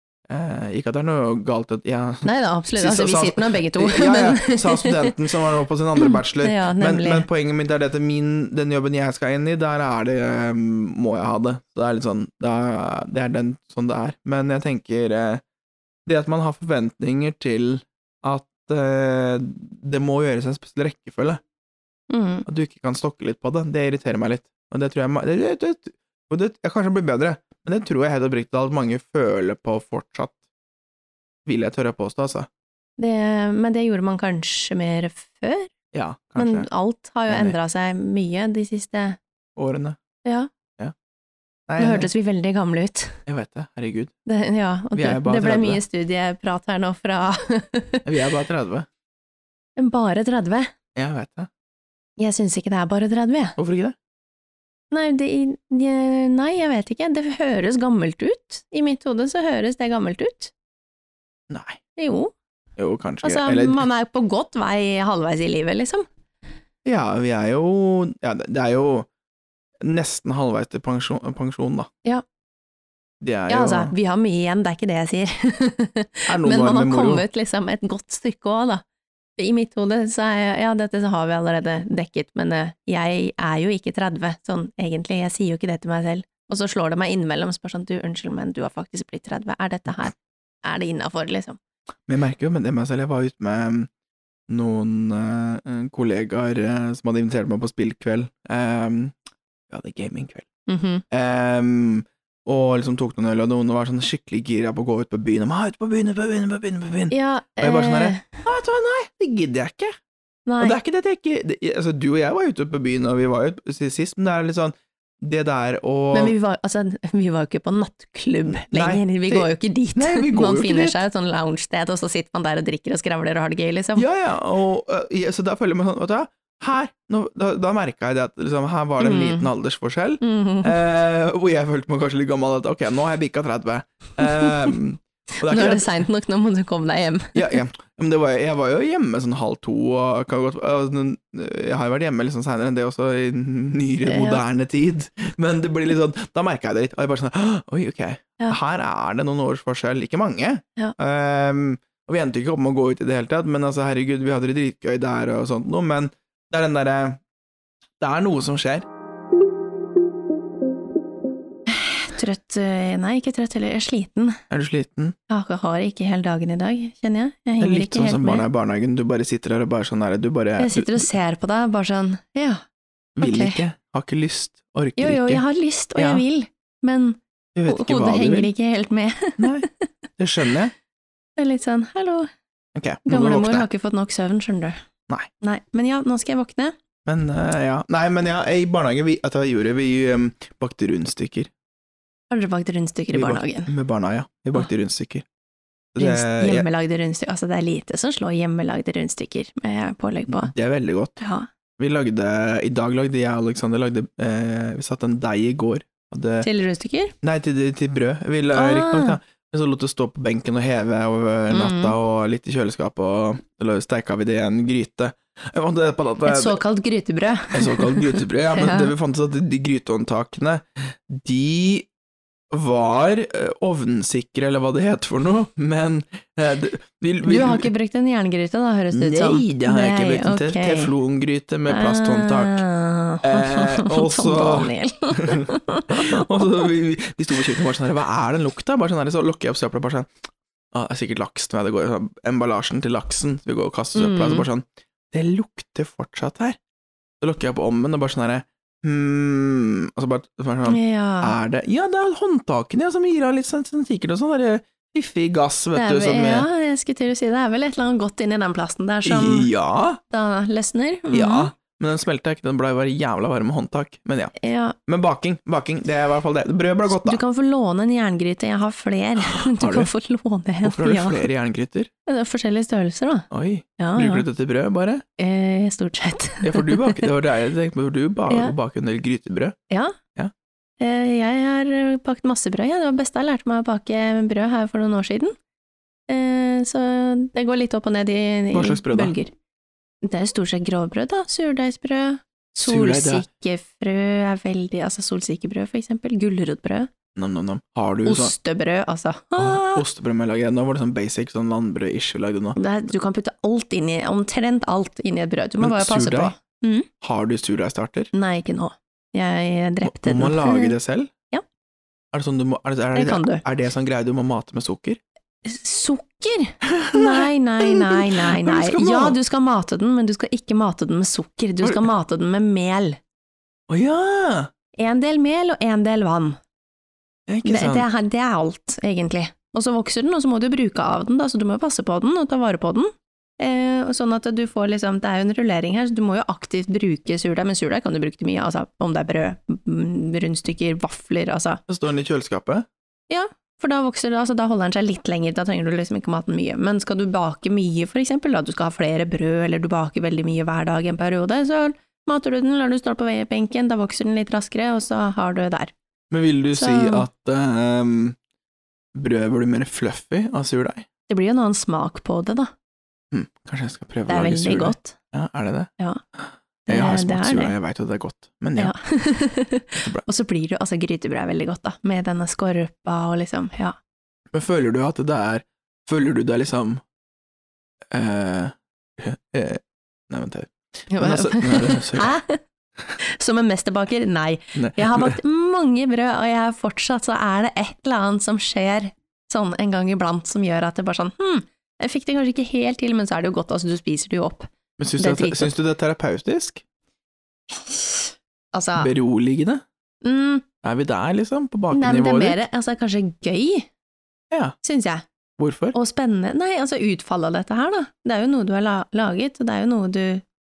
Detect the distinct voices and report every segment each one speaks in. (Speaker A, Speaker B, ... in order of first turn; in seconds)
Speaker A: 0.3-15.4, 16.1-21.4, 22.5-30.4, 31.5-32.5, 35.9-36.7, 37.3-37.6, 39.6-40.0, 41.7-42.1, 43.3-44.1, 45.0-45.8, 48.0-48.9, 51.0-51.5, 53.6-54.0, 61.5-61.8, 62.8-63.8, 66.8-69.1, 69.8-71.9, 73.2-73.9, 76.3-77.2, 92.1-93.9, 94.5-99.2, 99.7-100.5, 101.1-110.0, 110.6-116.3, 118.7-121.0, 124.0-135.9, 137.3-157.2, 158.0-158.9, 164.5-165.2, 167.6-171.1, 173.2-175.4, 176.0-176.2, 177.6-178.5, 179.4-179.7, 180.2-180.7, 182.8-183.7, 187.1-191.5, 193.1-195.2, 195.9-196.7, 200.3-201.2, 201.8-206.5, 207.2-216.6, 217.5-221.9, 222.5-227.7, 228.9-232.6, 233.2-240.1, 240.7-246.6, 247.2-256.5, 259.1-260.0, 261.1-264.3, 264.9-267.2, 269.3-269.9, 270.6-271.9, 273.3-275.0, 276.4-279.6, 288.5-289.1, 292.6-293.2, 297.2-298.3, 299.4-302.6, 305.6-306.4, 307.0-308.1, 309.8-311.1, 312.1-315.0, 316.7-319.2, 321.6-321.9, 323.7-324.5, 327.3-327.9, 341.7-342.7, 356.1-358.2, 358.9-360.9, 363.1-368.7, 369.8-370.0, 374.3-376.8, 377.9-382.1, 384.6-385.2, 394.8-396.6, 398.8-399.6, 400.6-402.4, 405.4-405.8
Speaker B: 2.2-5.1, 6.0-7.3, 22.1-22.4, 33.0-35.7, 36.4-39.2, 40.2-40.5, 41.8-43.2, 44.3-48.1, 49.8-50.7, 52.2-53.6, 54.9-60.5, 62.0-62.3, 63.2-66.1, 73.5-78.8, 79.4-91.6, 100.7-101.0, 107.1-108.4, 110.5-110.8, 116.1-124.1, 129.0-129.5, 130.2-130.8, 134.2-134.7, 135.4-137.6, 144.1-144.4, 161.7-164.4, 165.3-168.5, 170.6-172.6, 173.2-173.6, 175.0-179.9, 181.4-182.3, 183.1-184.8, 185.4-186.8, 192.3-193.7, 196.0-200.5, 201.2-201.5, 206.4-207.1, 208.5-209.2, 211.5-211.9, 216.2-218.9, 227.2-230.9, 231.7-236.6, 243.9-244.5, 250.7-251.4, 255.8-259.5, 260.1-261.5, 264.4-264.8, 266.9-271.2, 272.1-274.2, 275.2-277.1, 278.3-278.5, 279.7-280.0, 280.8-285.4, 286.1-289.3, 290.0-296.9, 298.1-299.8, 302.6-306.9, 308.1-310.8, 312.9-313.4, 315.4-323.0, 324.8-326.4, 327.4-341.6, 343.1-355.7, 356.6-357.1, 361.1-362.5, 364.1-365.0, 366.7-367.6, 368.6-373.8, 380.9-382.4, 383.0-395.6, 397.5-398.9, 400.0-400.4, 401.7-403.7, 404.6-405.0, 405.7-410.2